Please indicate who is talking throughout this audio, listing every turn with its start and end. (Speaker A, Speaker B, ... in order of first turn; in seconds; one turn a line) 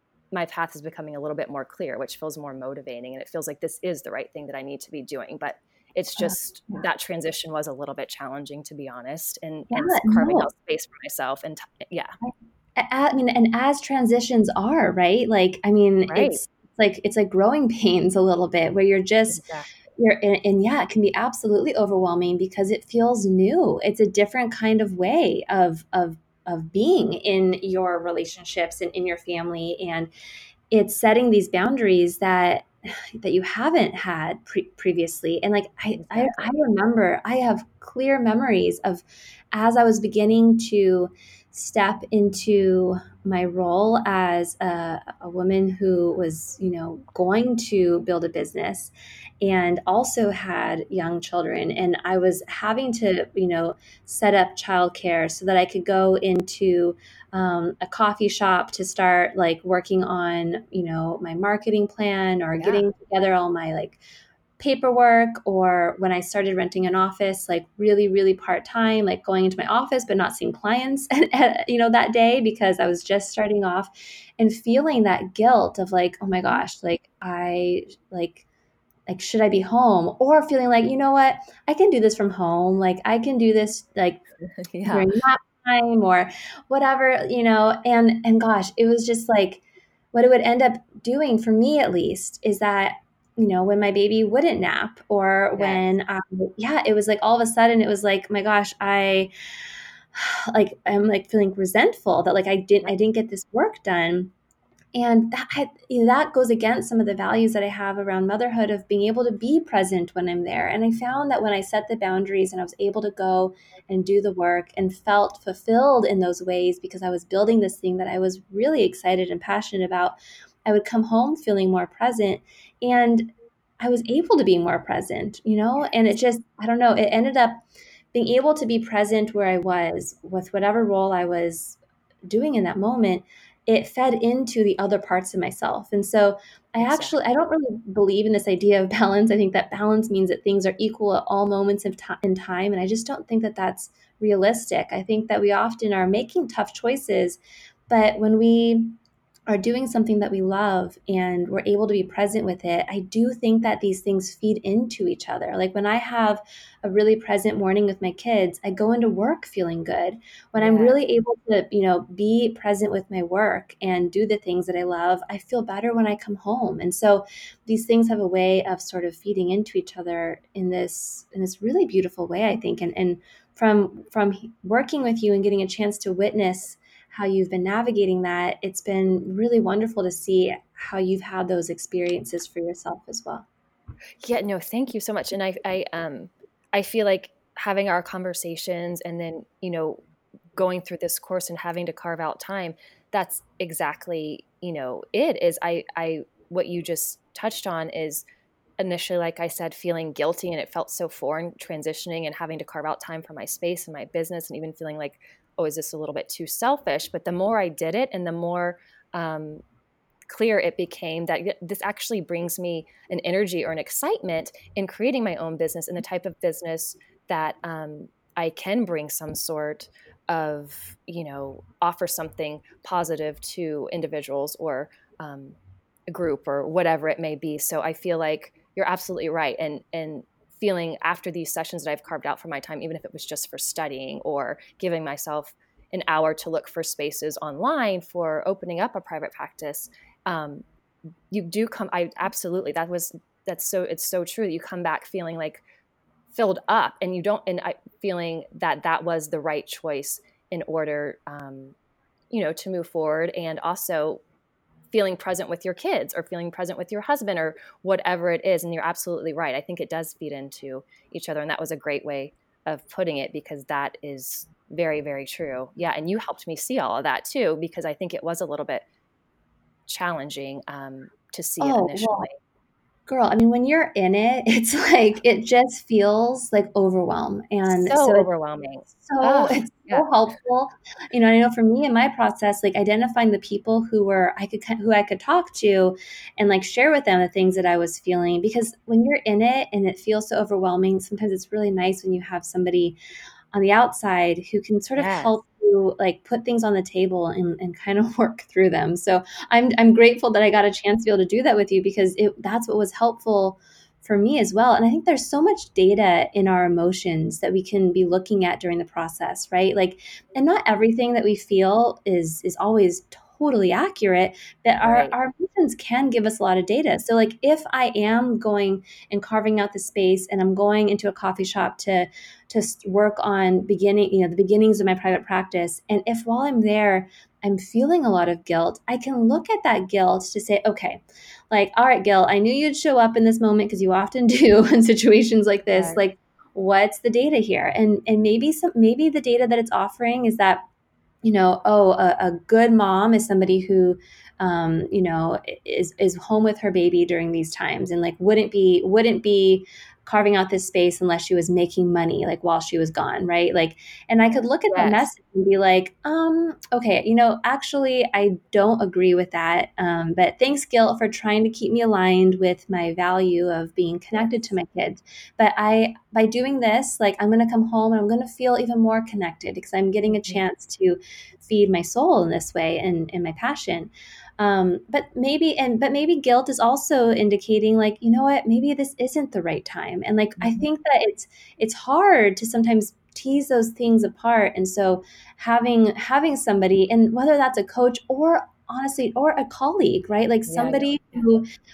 Speaker A: 0.3-12.1
Speaker B: 6.2-6.8
Speaker B: 9.7-10.5
Speaker B: 12.2-19.4
Speaker A: 16.1-16.4
Speaker A: 19.3-19.7
Speaker B: 20.0-30.1
Speaker B: 30.7-64.0
Speaker A: 36.0-36.5
Speaker A: 62.6-62.8
Speaker B: 64.6-78.4
Speaker B: 79.1-84.2
Speaker A: 84.4-85.1
Speaker B: 84.8-89.6
Speaker B: 90.1-99.3
Speaker A: 95.5-95.9
Speaker B: 100.1-104.3
Speaker B: 104.9-148.9
Speaker A: 136.8-137.2
Speaker B: 149.5-183.4
Speaker A: 160.6-161.0
Speaker A: 184.2-190.0
Speaker A: 190.5-198.2
Speaker A: 198.8-209.6
Speaker A: 210.3-225.6
Speaker A: 226.1-240.6
Speaker A: 241.3-245.6
Speaker A: 246.3-251.7
Speaker A: 252.3-254.2
Speaker A: 254.9-268.8
Speaker A: 269.9-272.4
Speaker B: 271.6-272.3
Speaker B: 273.1-278.3
Speaker A: 277.7-280.1
Speaker B: 279.0-293.0
Speaker B: 293.5-340.6
Speaker A: 294.9-295.4
Speaker A: 314.8-315.1
Speaker A: 335.7-336.0
Speaker B: 341.2-391.4
Speaker A: 354.7-355.1
Speaker A: 364.1-364.5
Speaker A: 370.1-370.4
Speaker A: 380.4-380.6
Speaker A: 390.5-390.9